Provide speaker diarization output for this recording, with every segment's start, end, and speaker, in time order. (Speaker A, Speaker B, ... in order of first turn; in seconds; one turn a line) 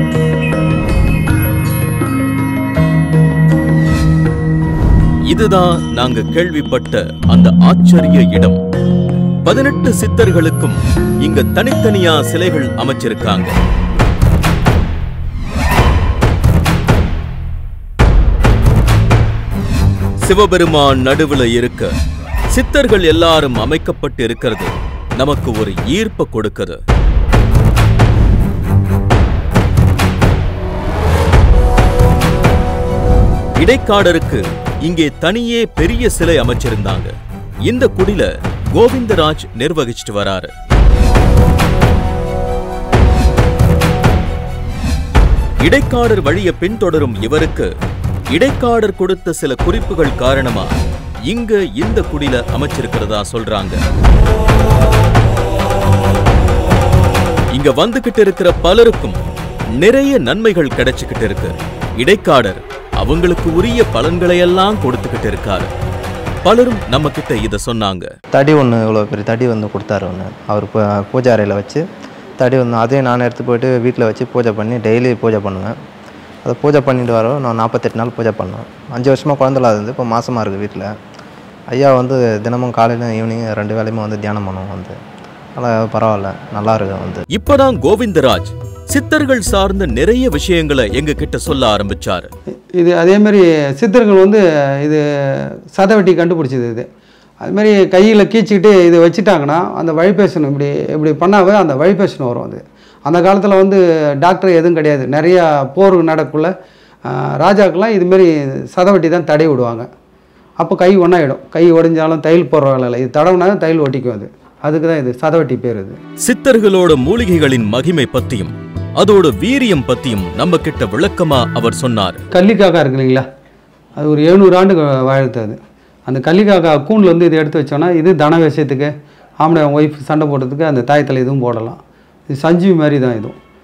Speaker A: 5.3-8.6
Speaker A: 9.4-13.5
Speaker A: 20.2-21.9
Speaker A: 22.5-26.8
Speaker A: 33.5-37.1
Speaker A: 37.7-40.5
Speaker A: 45.6-47.7
Speaker A: 48.3-50.8
Speaker A: 51.3-53.8
Speaker A: 57.5-59.2
Speaker A: 59.8-65.7
Speaker A: 66.4-68.1
Speaker B: 68.3-71.8
Speaker B: 72.4-75.7
Speaker B: 76.4-80.9
Speaker B: 81.7-85.0
Speaker B: 85.5-87.2
Speaker A: 87.3-92.3
Speaker C: 92.8-96.9
Speaker C: 97.4-106.5
Speaker C: 107.1-109.9
Speaker C: 110.6-116.0
Speaker A: 116.2-122.2
Speaker C: 122.3-123.2
Speaker C: 124.0-133.3